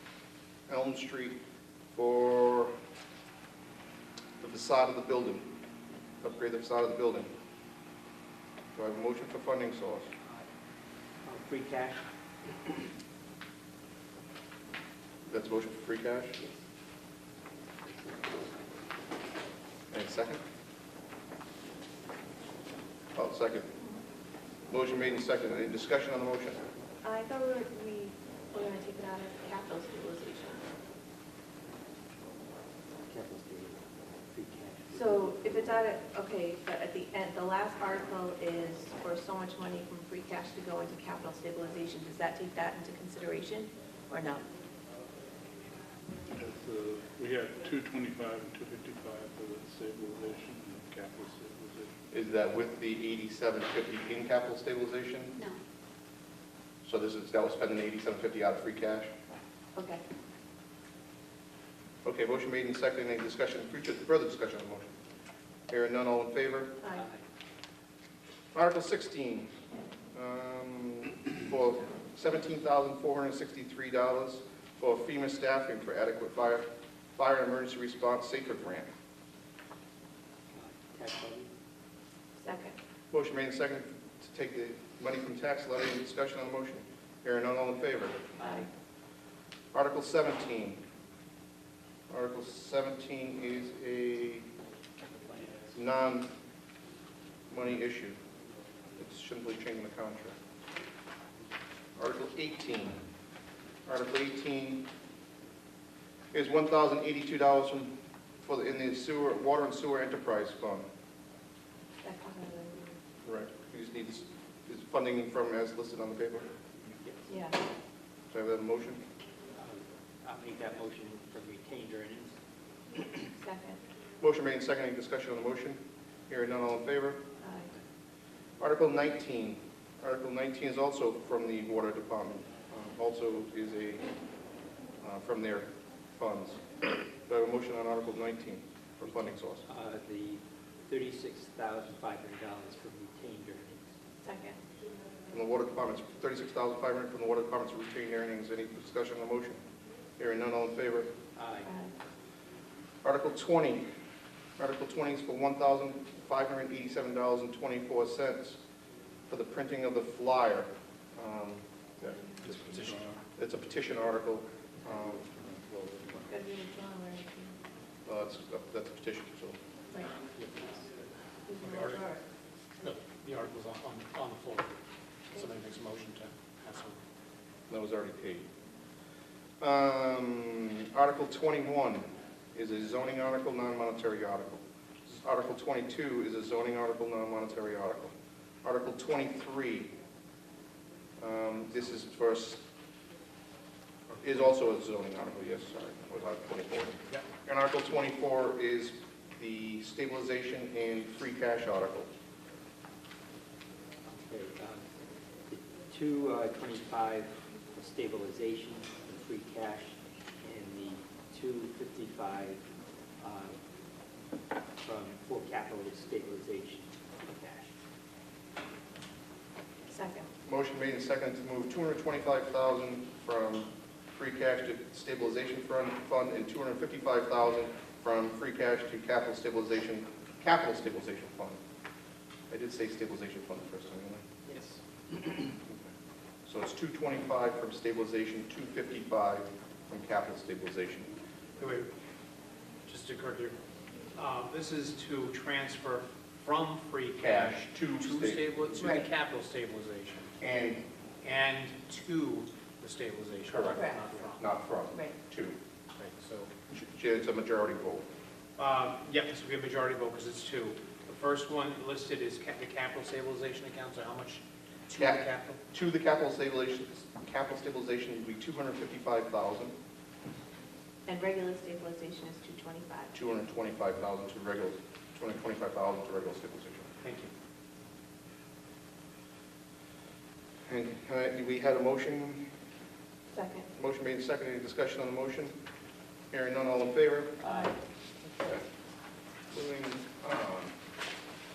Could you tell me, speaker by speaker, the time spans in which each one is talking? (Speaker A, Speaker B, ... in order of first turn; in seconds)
Speaker A: 0.7-1.4, 1.9-2.7, 4.4-5.5, 6.2-7.3, 8.7-10.1, 15.3-16.4, 19.9-20.4, 23.1-23.7, 24.7-26.6, 52.1-55.4, 56.8-59.1, 62.0-64.9, 65.7-66.7, 68.5-69.5, 70.1-78.9, 83.1-88.2, 89.7-90.8, 92.1-94.5, 95.7-96.3, 97.5-98.2, 99.0-100.4, 102.0-103.0, 103.9-104.8, 106.3-110.9, 113.2-116.5, 118.3-119.0, 124.2-127.2, 128.6-134.1, 135.0-136.6, 137.3-139.6, 145.3-149.6, 150.2-151.1, 153.0-153.8, 154.6-158.6, 159.3-161.6, 163.4-165.6, 168.1-169.6, 177.7-178.5, 179.6-184.6, 185.1-188.1, 188.6-189.9, 191.2-192.6, 194.2-202.1, 220.5-231.6, 232.5-234.2, 235.6-235.9, 236.5-241.1, 247.2-249.0, 250.4-250.8, 253.5-255.6, 256.7-258.1, 264.9-269.7, 273.1-276.9, 280.7-282.4, 283.8-285.5, 286.3-287.5, 289.5-290.7
Speaker B: 11.2-12.9, 33.1-35.6, 66.9-67.2, 80.5-81.5, 116.8-117.3, 119.6-122.4, 123.0-123.2, 139.7-143.9, 151.4-151.7, 204.1-204.8, 205.5-212.6, 213.2-213.6, 214.8-217.7
Speaker C: 27.0-30.6, 34.9-44.4, 59.8-60.0, 82.4-82.8, 88.4-88.7, 112.0-112.9, 117.3-117.6, 123.4-123.8, 127.4-127.7, 144.2-144.6, 151.7-151.9, 166.3-167.6, 171.5-172.2, 219.9-220.3, 253.7-254.0, 271.1-273.1, 283.3-283.7, 287.4-287.7
Speaker D: 46.3-51.9
Speaker E: 162.4-163.2, 170.4-170.8, 171.6-172.1, 172.8-174.8, 175.3-177.0, 241.6-241.9, 242.9-243.6, 244.2-250.3, 251.2-254.4, 256.0-256.5, 258.6-265.6, 277.0-277.3